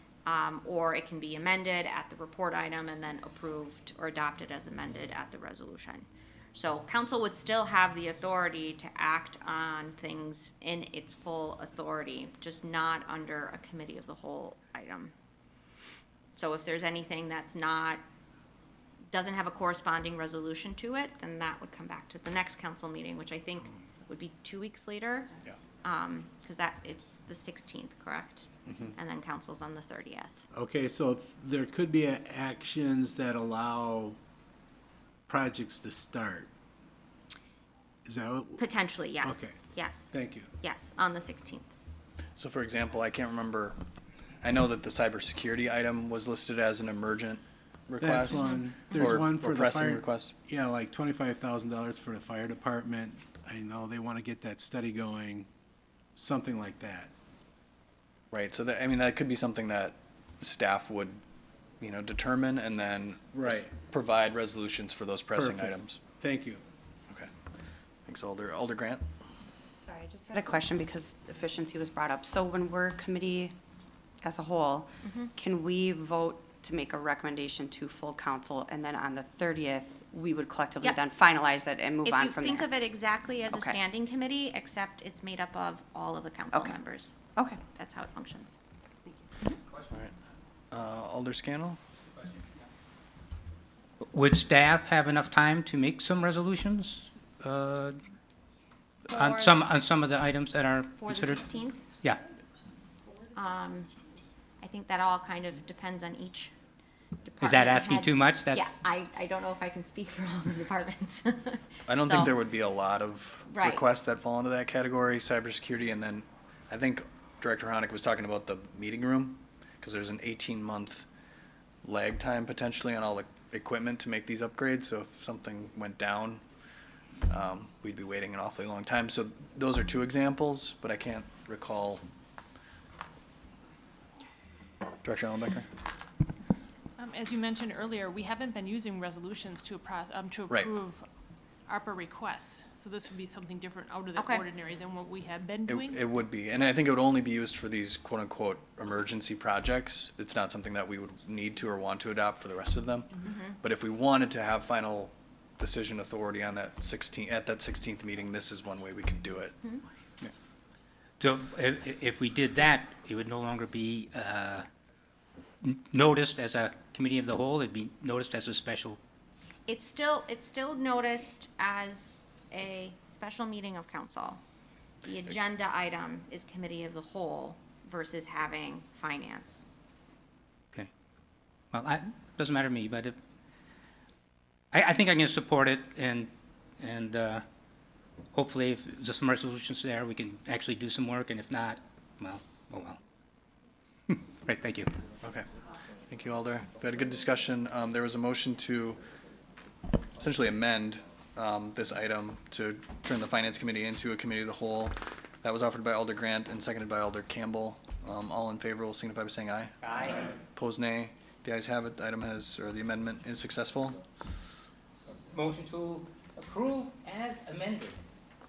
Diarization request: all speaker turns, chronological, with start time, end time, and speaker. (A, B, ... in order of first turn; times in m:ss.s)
0:00.3-0:15.1 A
0:16.4-0:18.0 A
0:19.1-0:25.3 A
0:25.8-0:30.4 A
0:30.5-0:34.2 B
0:35.3-0:36.5 B
0:38.0-0:38.7 B
0:38.6-0:41.7 A
0:39.2-0:39.6 B
0:40.1-0:40.5 B
0:42.4-0:43.8 C
0:44.4-0:50.3 C
0:48.0-0:55.5 B
0:48.3-0:49.2 A
0:56.2-0:57.1 B
0:58.3-1:01.2 C
1:01.8-1:06.0 C
1:03.3-1:03.7 B
1:05.4-1:06.6 B
1:08.1-1:09.0 C
1:09.9-1:13.5 D
1:14.3-1:22.6 D
1:15.0-1:15.3 A
1:22.0-1:27.2 A
1:27.7-1:28.6 A
1:30.7-1:31.8 C
1:34.1-1:38.0 E
1:39.1-1:39.6 A
1:39.1-1:41.5 E
1:41.0-1:42.0 A
1:43.3-1:43.9 A
1:44.6-1:46.5 A
1:47.2-1:52.3 A
1:47.4-1:48.8 E
1:51.9-2:01.1 C
1:53.5-1:53.8 A
2:01.8-2:06.4 C
2:07.3-2:12.0 C
2:15.0-2:15.7 C
2:17.0-2:21.0 F
2:21.7-2:26.0 F
2:24.2-2:24.4 A
2:25.7-2:39.6 C
2:33.2-2:33.5 A
2:41.2-2:44.7 E
2:45.6-2:49.0 E
2:49.7-2:54.4 A
2:55.0-2:59.7 A
3:01.7-3:03.2 E
3:04.7-3:07.4 E
3:08.3-3:13.0 E
3:14.1-3:14.9 E
3:16.1-3:19.0 C
3:20.2-3:29.7 C
3:29.8-3:30.3 E
3:30.5-3:34.0 C
3:35.3-3:38.0 E